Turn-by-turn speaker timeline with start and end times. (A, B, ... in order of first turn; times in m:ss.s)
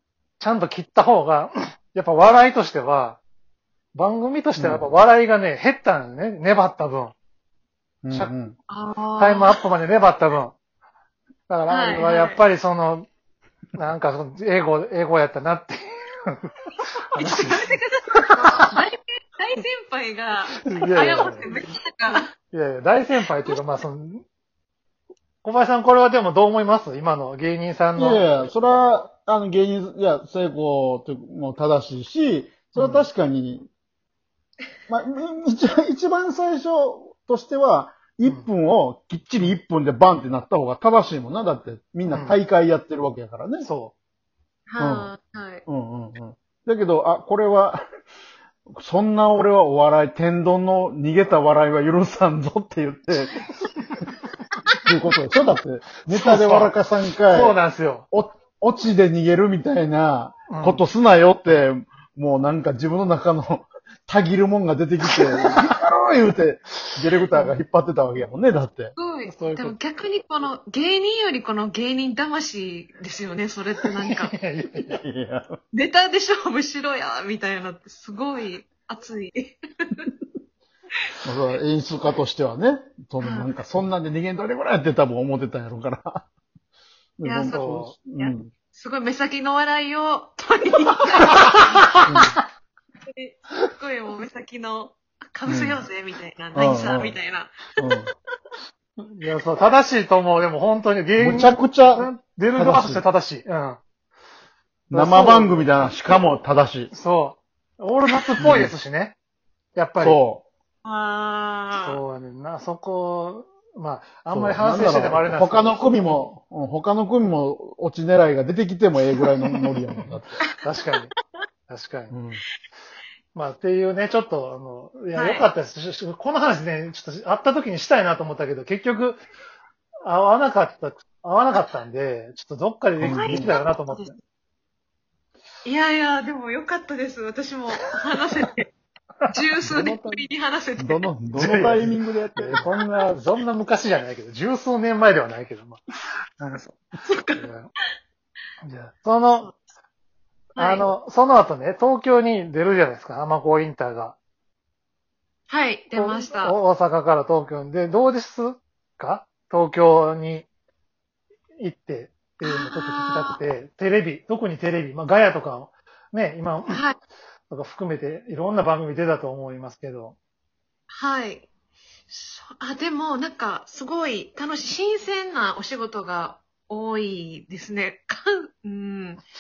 0:00.4-0:03.2 A
0:03.9-0:07.1 A
0:04.6-0:04.8 B
0:08.0-0:08.5 B
0:08.7-0:09.6 C
0:09.2-0:10.6 A
0:11.5-0:13.1 A
0:11.7-0:12.4 C
0:13.8-0:16.4 A
0:17.1-0:18.7 A
0:17.1-0:22.3 C
0:20.6-0:21.5 A
0:22.1-0:24.2 A
0:25.4-0:28.2 A
0:28.0-0:33.7 B
0:32.7-0:33.1 A
0:34.9-0:43.7 B
0:42.1-0:42.4 A
0:43.6-0:43.9 A
0:44.7-0:45.6 C
0:44.8-0:45.1 B
0:45.7-0:47.8 B
0:48.7-0:53.5 B
0:54.8-0:57.6 B
0:56.1-0:56.7 A
0:57.3-0:58.0 A
0:58.1-1:08.9 B
1:00.5-1:00.8 A
1:09.0-1:14.3 C
1:09.2-1:09.8 A
1:14.2-1:15.0 A
1:14.8-1:15.6 B
1:15.7-1:20.1 C
1:21.2-1:26.2 B
1:23.2-1:23.5 C
1:27.2-1:28.5 B
1:27.2-1:31.9 C
1:27.5-1:27.9 A
1:32.0-1:32.3 B
1:33.1-1:38.1 C
1:35.5-1:35.8 B
1:36.5-1:37.2 B
1:37.8-1:38.1 B
1:39.0-1:43.8 A
1:41.2-1:43.0 B
1:44.9-1:45.7 A
1:44.9-1:46.9 B
1:46.9-1:49.2 A
1:48.4-1:48.7 B
1:49.7-1:50.2 A
1:50.0-1:50.4 B
1:50.8-1:52.0 C
1:51.7-1:55.7 A
1:54.3-2:00.4 B
1:59.9-2:01.1 A
2:01.7-2:02.1 A
2:02.1-2:02.4 B
2:03.3-2:09.2 A
2:05.1-2:05.5 C
2:10.0-2:14.1 A
2:13.0-2:13.5 B
2:13.0-2:14.1 C
2:15.6-2:18.7 C
2:19.3-2:21.1 C
2:19.7-2:20.2 B
2:20.8-2:22.7 B
2:21.3-2:25.8 A
2:26.4-2:27.5 C
2:27.3-2:27.7 A
2:28.6-2:29.5 A
2:30.6-2:30.8 C
2:30.6-2:34.2 A
2:35.5-2:36.5 C
2:35.9-2:40.5 A
2:41.6-2:46.8 A
2:42.4-2:43.4 C
2:46.7-2:47.0 C
2:47.5-2:50.2 A
2:50.9-2:51.5 C
2:52.1-2:59.2 C